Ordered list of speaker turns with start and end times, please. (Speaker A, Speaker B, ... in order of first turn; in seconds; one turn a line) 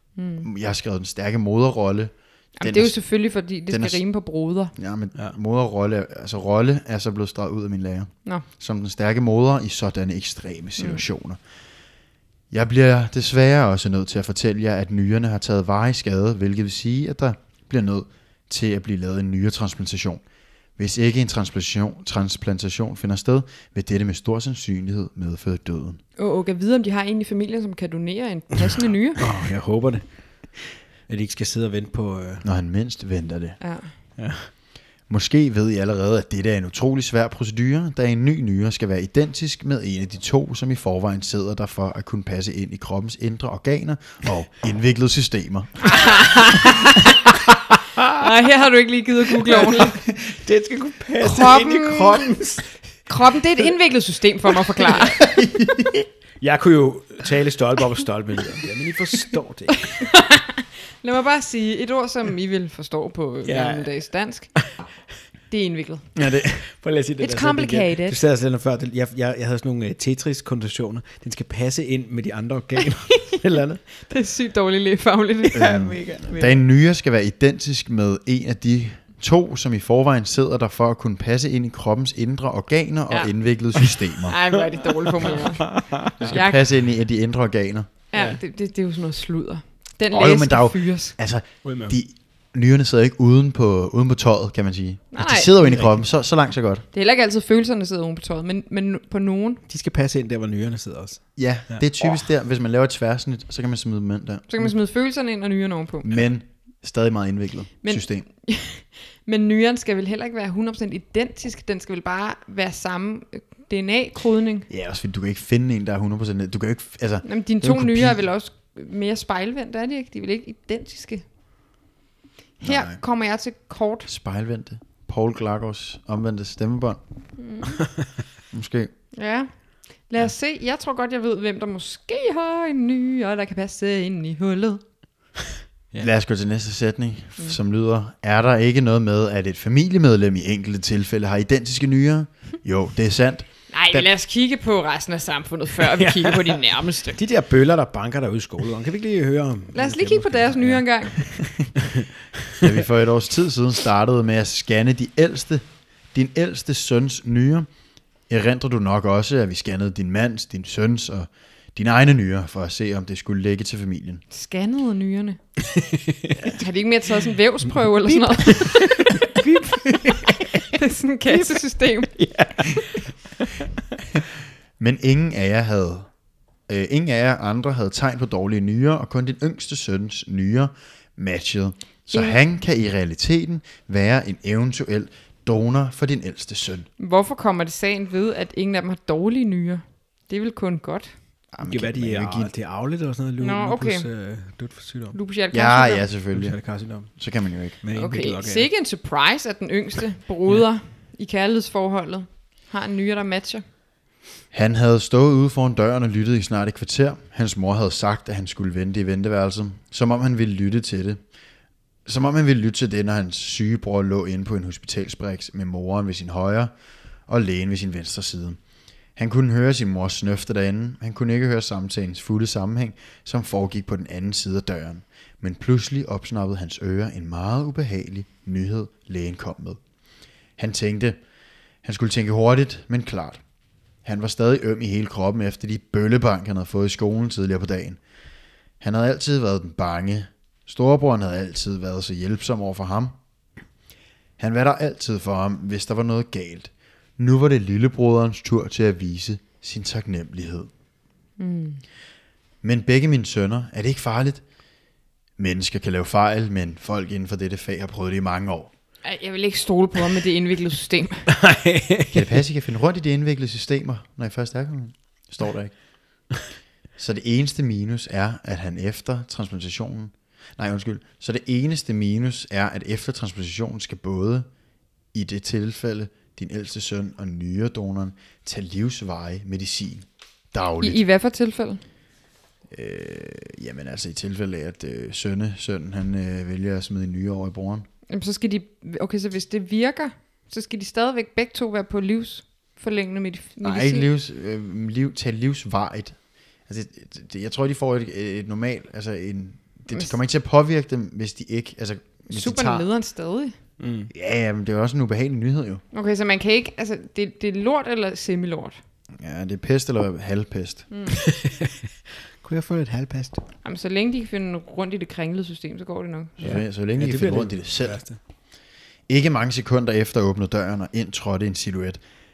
Speaker A: 0.2-0.5
Speaker B: 0.4-3.0
Speaker A: 2.6-4.7
Speaker B: 3.7-4.0
Speaker B: 4.8-11.4
Speaker B: 12.5-20.2
Speaker B: 20.8-26.0
Speaker A: 26.2-29.2
Speaker C: 29.2-32.5
Speaker B: 32.4-33.6
Speaker A: 33.6-33.9
Speaker C: 34.2-34.5
Speaker B: 35.1-46.1
Speaker A: 45.8-47.2
Speaker C: 48.0-48.2
Speaker A: 48.1-50.0
Speaker C: 49.4-52.8
Speaker A: 51.2-52.3
Speaker A: 53.1-55.2
Speaker B: 55.2-56.1
Speaker C: 56.4-60.0
Speaker A: 59.9-64.5
Speaker C: 63.5-64.0
Speaker A: 65.5-66.0
Speaker B: 66.2-66.6
Speaker C: 66.6-73.8
Speaker A: 67.2-68.2
Speaker A: 74.0-75.8
Speaker C: 75.5-76.6
Speaker B: 75.5-84.4
Speaker A: 84.3-86.6
Speaker C: 85.1-86.3
Speaker B: 86.2-87.9
Speaker A: 88.1-91.2
Speaker B: 90.1-96.8
Speaker C: 91.6-92.0
Speaker A: 95.1-95.5
Speaker C: 95.6-96.0
Speaker A: 96.9-99.6
Speaker C: 99.7-101.8
Speaker B: 101.4-104.5
Speaker A: 104.5-106.1
Speaker B: 106.0-108.2
Speaker A: 107.8-114.7
Speaker B: 114.7-118.2
Speaker A: 117.2-121.2
Speaker A: 122.6-124.1
Speaker B: 122.6-123.0
Speaker B: 124.1-127.0
Speaker A: 127.4-127.8
Speaker B: 128.5-128.9
Speaker A: 129.2-134.8
Speaker B: 136.0-144.1
Speaker A: 143.7-147.2
Speaker C: 145.8-146.6
Speaker C: 147.2-152.1
Speaker A: 149.7-151.4
Speaker B: 152.6-157.7
Speaker B: 158.3-164.2
Speaker A: 164.3-165.4
Speaker C: 165.9-166.3
Speaker A: 166.4-169.3
Speaker C: 167.7-170.7
Speaker A: 170.7-172.2
Speaker C: 171.3-171.6
Speaker C: 172.1-173.5
Speaker B: 174.8-176.1
Speaker B: 176.7-186.9
Speaker A: 182.1-182.4
Speaker A: 187.0-191.1
Speaker B: 191.5-192.5
Speaker C: 191.6-195.2
Speaker A: 193.4-194.1
Speaker A: 195.1-196.1
Speaker B: 195.5-197.8
Speaker C: 196.3-197.1
Speaker C: 197.8-198.7
Speaker A: 197.9-203.6
Speaker B: 204.5-211.2
Speaker B: 212.1-216.7
Speaker B: 217.3-218.6
Speaker B: 219.2-229.8
Speaker B: 230.6-231.2
Speaker B: 231.8-233.4
Speaker B: 234.0-238.0
Speaker B: 238.8-243.2
Speaker B: 244.4-250.7
Speaker A: 251.4-251.8
Speaker B: 252.6-254.4
Speaker B: 255.4-258.7
Speaker A: 259.0-261.3
Speaker C: 261.3-262.4
Speaker B: 262.1-265.8
Speaker B: 267.0-274.5
Speaker B: 275.1-281.0
Speaker A: 280.8-281.8
Speaker B: 282.7-287.9
Speaker A: 288.1-294.1
Speaker B: 293.6-302.9
Speaker A: 302.3-303.5
Speaker C: 303.8-304.1
Speaker B: 304.1-305.8
Speaker A: 305.9-308.8
Speaker B: 309.2-310.9
Speaker A: 310.9-311.2
Speaker C: 311.2-311.8
Speaker C: 312.4-313.4
Speaker A: 313.6-316.4
Speaker B: 316.4-318.0
Speaker C: 316.4-318.2
Speaker B: 319.1-322.0